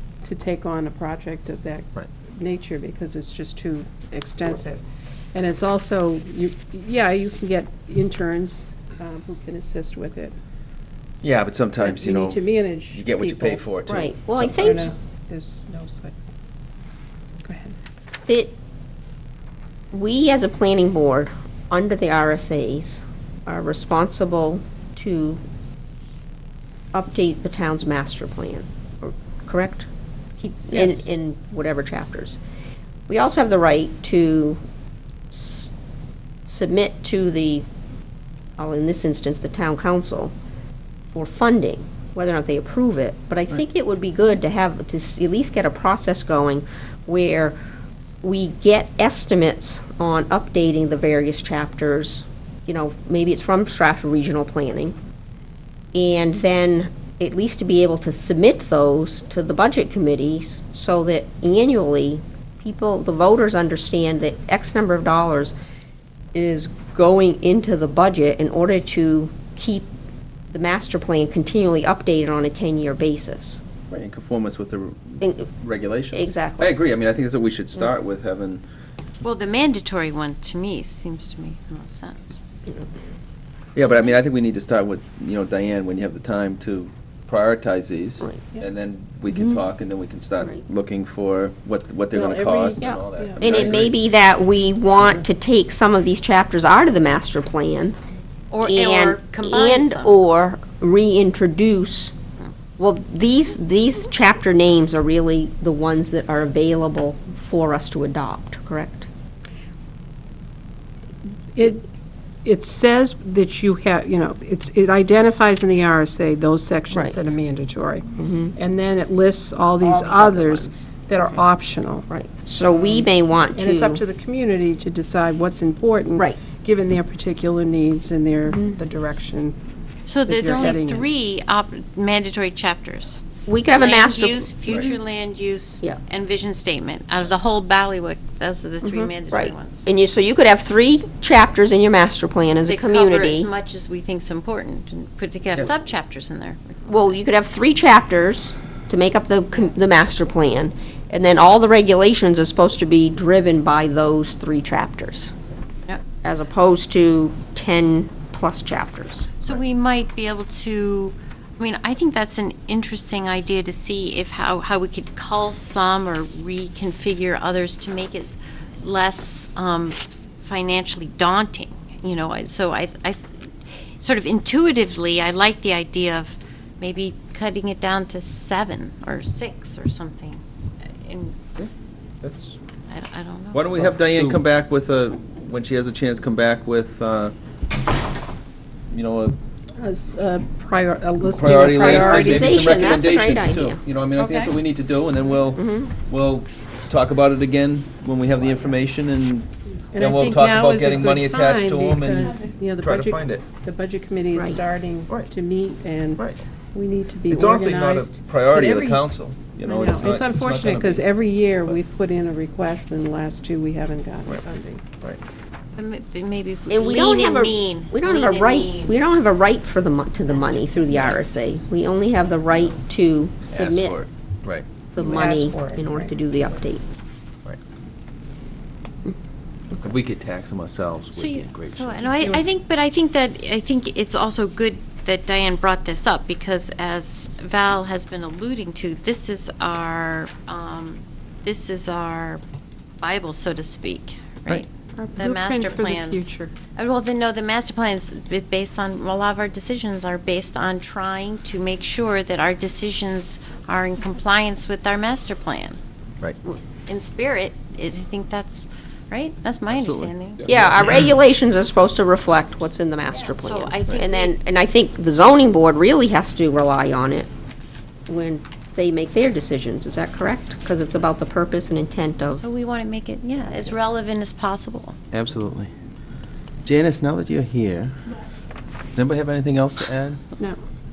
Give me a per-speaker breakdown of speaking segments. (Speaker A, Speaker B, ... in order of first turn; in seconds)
Speaker A: 0.2-4.8, 5.3-10.3, 11.8-13.6, 14.6-16.2, 17.4-17.7, 92.1-93.7, 111.5-111.8, 112.4-122.1, 122.7-129.6, 130.2-131.1, 189.8-192.8, 199.9-209.0, 209.6-214.8, 225.0-226.2, 244.9-246.5
Speaker B: 11.2-14.8, 73.9-78.6, 83.7-94.0, 182.2-182.6, 183.5-187.3, 188.9-189.4, 191.3-203.4, 207.3-211.1, 223.5-224.7, 229.8-232.3, 259.7-260.9, 275.1-275.7, 276.6-277.9, 278.9-280.2
Speaker C: 13.9-14.9, 18.3-18.5, 19.9-25.4, 26.9-32.4, 33.1-34.6, 35.3-35.7, 36.5-37.6, 38.6-40.3, 41.1-47.6, 48.2-55.0, 55.9-65.5, 66.3-69.9, 70.5-73.6, 75.2-75.5, 76.1-76.7, 89.3-89.6, 92.8-98.0, 98.6-102.1, 102.8-109.1, 116.9-117.2, 118.2-118.5, 119.8-121.3, 122.1-124.0, 128.5-128.8, 133.4-134.5, 138.8-143.5, 146.8-155.3, 156.2-159.3, 191.8-193.8, 195.5-195.9, 216.7-224.0, 224.9-226.8, 260.4-267.3, 268.1-272.4
Speaker D: 79.2-82.4, 98.5-100.2, 130.1-133.2, 133.8-139.9, 142.7-147.2, 159.4-181.4, 182.9-183.8, 194.2-194.5, 215.8-219.1, 220.3-221.1, 231.1-242.4, 243.0-255.8, 256.9-260.4, 263.3-264.3, 272.3-274.9